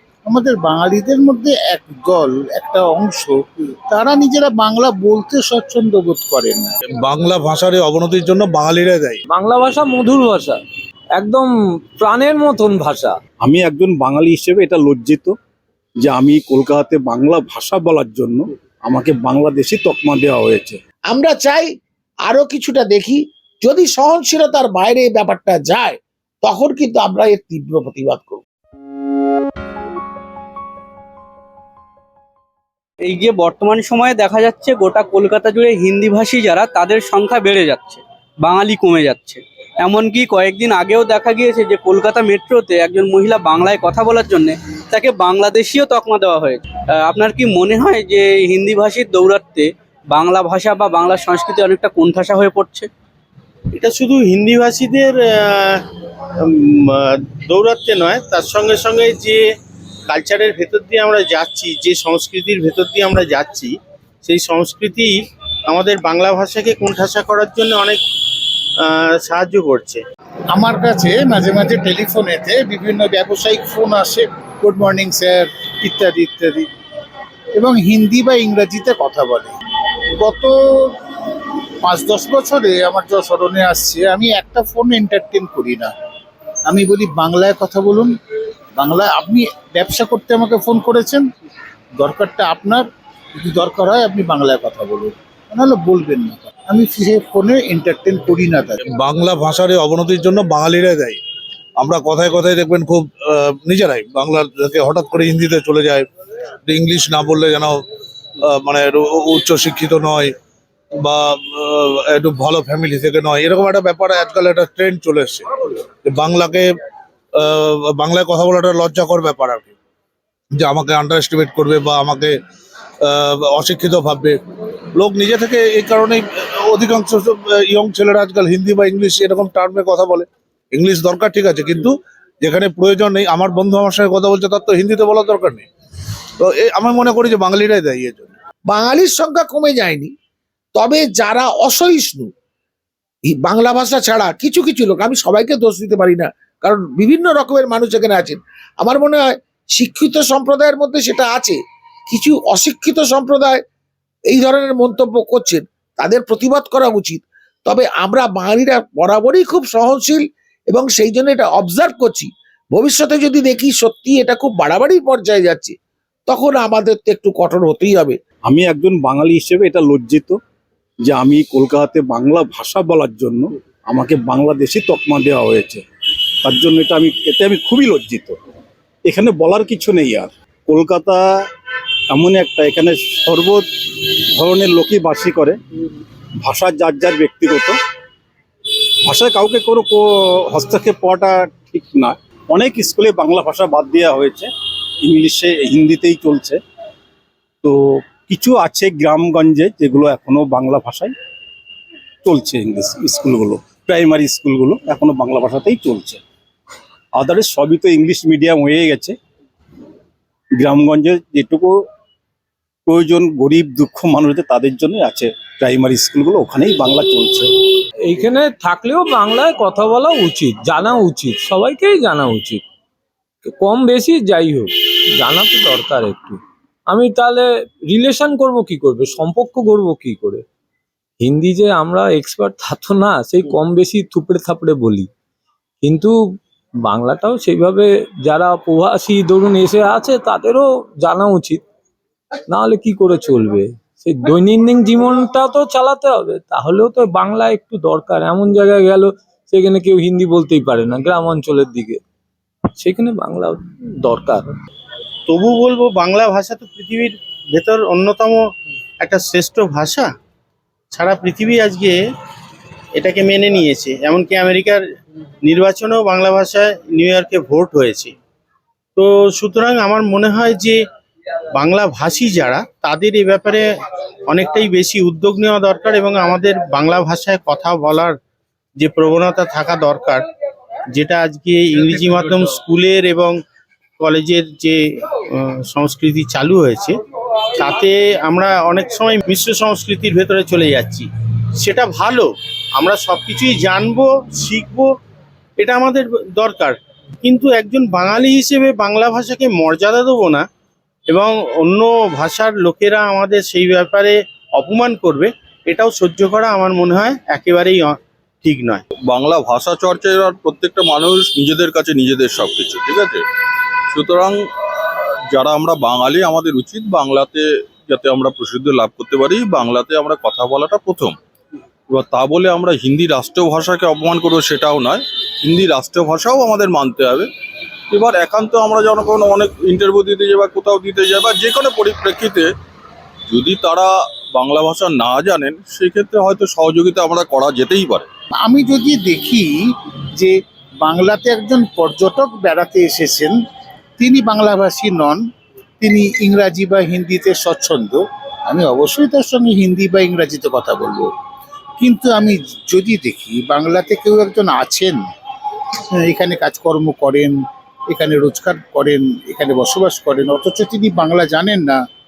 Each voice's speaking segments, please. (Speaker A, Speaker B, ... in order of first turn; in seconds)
Speaker A: 0.3-3.4, 3.9-6.7, 70.5-76.7, 77.5-79.6, 80.2-80.5, 81.8-85.9, 86.7-88.1, 88.8-91.3, 92.0-92.8, 93.4-98.8, 338.4-339.6, 340.2-343.4, 344.0-345.2, 345.8-351.1, 351.8-355.1, 355.9-357.4, 357.9-361.8
Speaker B: 7.0-9.2, 98.9-101.2, 101.8-106.1, 106.7-107.8, 108.4-110.3, 111.0-115.5, 116.0-116.7, 117.3-119.7, 120.5-122.4, 123.0-124.4, 125.0-135.7, 136.4-138.3
Speaker C: 9.3-10.6, 11.2-13.2, 218.1-222.6, 223.4-226.4, 226.9-230.4, 231.2-235.1, 235.8-236.1, 236.9-241.6, 242.5-252.0, 252.8-254.4
Speaker D: 13.4-15.3, 16.0-20.8, 168.5-170.4, 171.1-175.8, 176.4-178.4, 179.1-181.2, 182.1-185.6, 186.4-187.8, 189.1-194.5, 195.0-196.6, 197.6-201.1, 202.2-206.2, 207.2-209.2, 210.6-211.7, 212.9-217.5
Speaker E: 21.1-21.7, 22.3-28.4, 138.7-140.1, 140.8-142.3, 143.3-151.6, 152.1-153.6, 154.3-165.7, 166.3-168.2
Speaker F: 33.0-52.9
Speaker G: 53.7-55.9, 56.4-59.5, 60.1-68.0, 68.8-70.0, 255.3-258.5, 259.0-260.1, 260.9-262.0, 262.9-264.8, 265.4-268.1, 269.0-270.8, 271.6-273.7, 274.3-278.2, 278.8-280.2, 280.9-283.4, 284.0-287.0, 287.6-294.9, 295.6-300.5, 301.1-308.8
Speaker H: 309.1-313.2, 313.9-321.2, 321.9-327.3, 327.9-332.5, 333.3-338.1